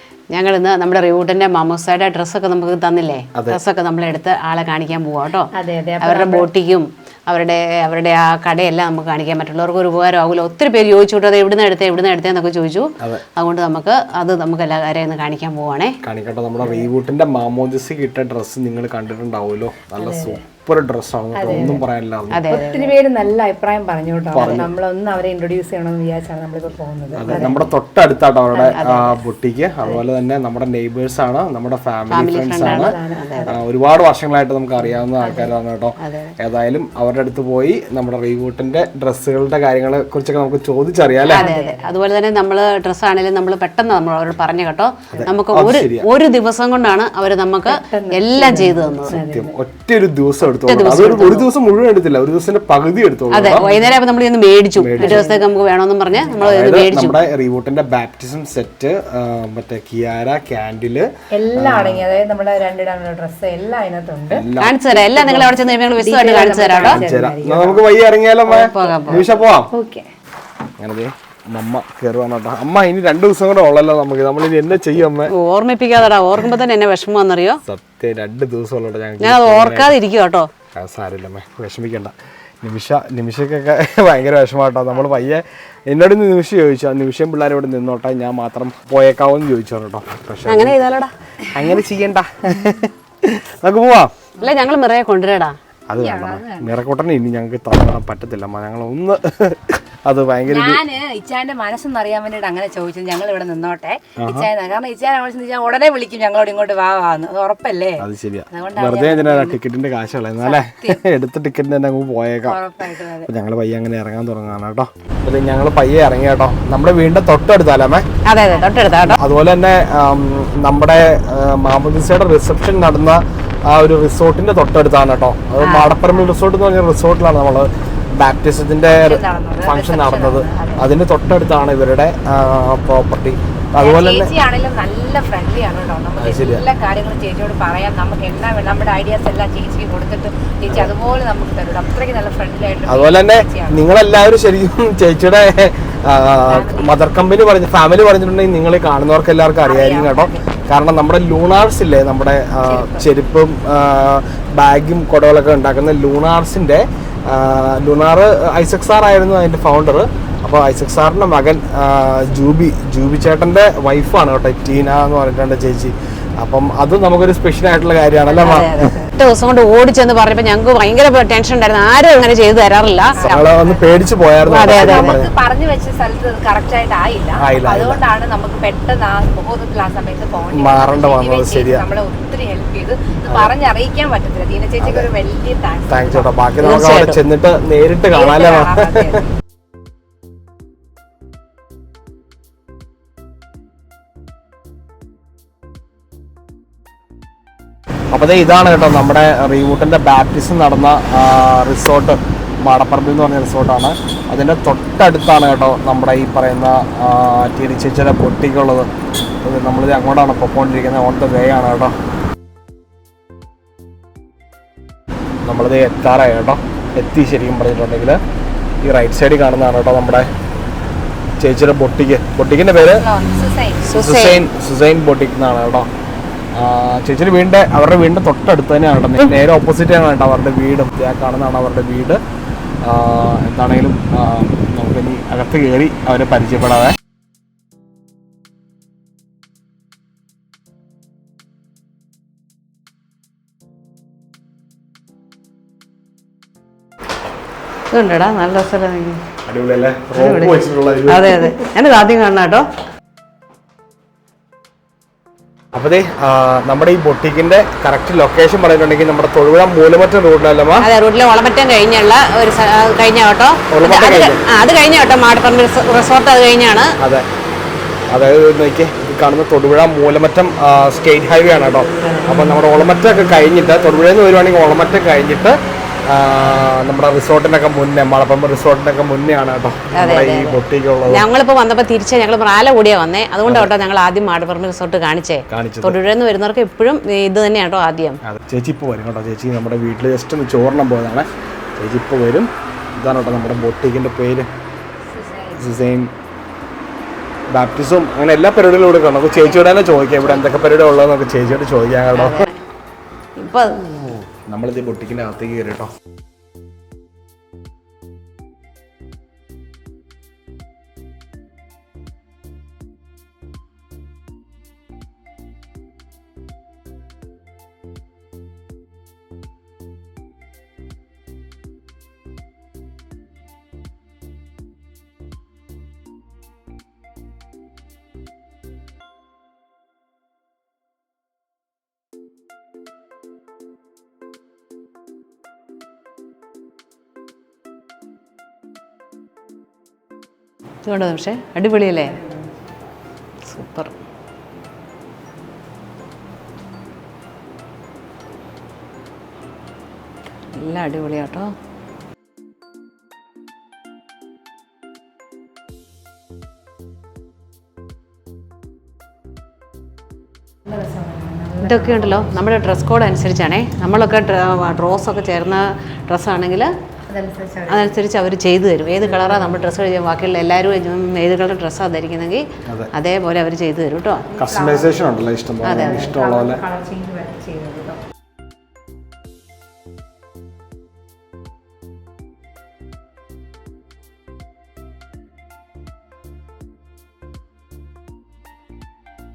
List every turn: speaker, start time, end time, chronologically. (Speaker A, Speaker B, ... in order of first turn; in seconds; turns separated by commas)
Speaker A: 0.3-16.0, Speaker B: 5.5-6.5, Speaker C: 16.0-22.5, Speaker B: 20.0-20.4, Speaker B: 21.3-21.8, Speaker A: 22.3-22.9, Speaker B: 22.5-27.6, Speaker C: 24.3-24.7, Speaker C: 27.2-32.9, Speaker A: 28.5-29.2, Speaker A: 32.1-33.5, Speaker B: 32.5-33.6, Speaker C: 33.5-41.5, Speaker B: 35.2-35.5, Speaker A: 36.0-36.4, Speaker A: 41.2-49.1, Speaker B: 41.3-41.9, Speaker C: 45.1-46.1, Speaker B: 47.6-49.5, Speaker C: 48.9-53.7, Speaker A: 50.5-51.5, Speaker A: 53.3-57.2, Speaker B: 53.5-54.0, Speaker C: 54.8-55.3, Speaker B: 55.0-55.5, Speaker B: 56.1-56.5, Speaker C: 56.4-62.0, Speaker B: 61.3-67.8, Speaker C: 64.3-64.9, Speaker A: 64.6-67.0, Speaker C: 66.8-69.7, Speaker A: 68.5-69.2, Speaker B: 68.5-70.1, Speaker C: 70.8-75.3, Speaker A: 75.3-77.6, Speaker C: 77.6-79.9, Speaker A: 79.2-80.5, Speaker C: 80.7-90.8, Speaker A: 90.5-91.1, Speaker C: 91.5-94.1, Speaker A: 94.4-95.6, Speaker C: 95.9-100.8, Speaker B: 96.0-96.7, Speaker B: 100.5-109.6, Speaker C: 104.2-104.5, Speaker C: 108.0-112.6, Speaker B: 110.4-111.0, Speaker B: 112.5-113.3, Speaker C: 113.2-118.0, Speaker A: 118.2-119.2, Speaker C: 119.0-134.3, Speaker A: 125.6-126.0, Speaker B: 128.9-130.8, Speaker B: 133.8-143.8, Speaker C: 136.2-136.6, Speaker C: 142.9-169.0, Speaker B: 146.5-147.0, Speaker B: 149.6-150.4, Speaker B: 152.6-153.0, Speaker A: 168.2-173.2, Speaker B: 173.2-174.0, Speaker C: 173.2-175.3, Speaker A: 174.4-175.1, Speaker B: 174.6-186.3, Speaker C: 177.4-178.0, Speaker C: 180.5-181.9, Speaker C: 184.8-185.1, Speaker C: 185.9-189.2, Speaker A: 186.6-187.2, Speaker B: 188.1-189.3, Speaker C: 198.1-208.9, Speaker C: 209.4-211.9, Speaker C: 215.4-218.2, Speaker C: 218.8-220.3, Speaker C: 221.4-223.1, Speaker B: 222.8-223.9, Speaker A: 223.8-224.4, Speaker C: 223.9-225.9, Speaker C: 226.5-232.2, Speaker C: 232.8-237.0, Speaker A: 247.9-249.2, Speaker C: 249.4-251.5, Speaker A: 250.1-252.7, Speaker C: 255.7-260.9, Speaker A: 260.8-266.9, Speaker C: 263.7-264.4, Speaker C: 267.0-267.2, Speaker C: 268.1-281.3, Speaker A: 272.0-272.5, Speaker A: 279.9-288.2, Speaker C: 283.4-283.7, Speaker C: 285.5-286.0, Speaker C: 288.2-294.5, Speaker B: 295.1-295.7, Speaker C: 295.5-296.1, Speaker C: 297.5-302.4, Speaker A: 302.1-302.6, Speaker A: 303.4-303.9, Speaker C: 304.3-305.9, Speaker A: 340.8-342.1, Speaker A: 343.4-343.9, Speaker A: 350.5-351.5, Speaker B: 360.6-362.5, Speaker A: 361.6-366.7, Speaker B: 367.1-368.0, Speaker A: 367.7-374.3, Speaker B: 369.1-369.6, Speaker C: 372.6-372.9, Speaker B: 374.3-375.0, Speaker C: 374.4-376.6, Speaker A: 375.6-376.0, Speaker B: 375.7-378.0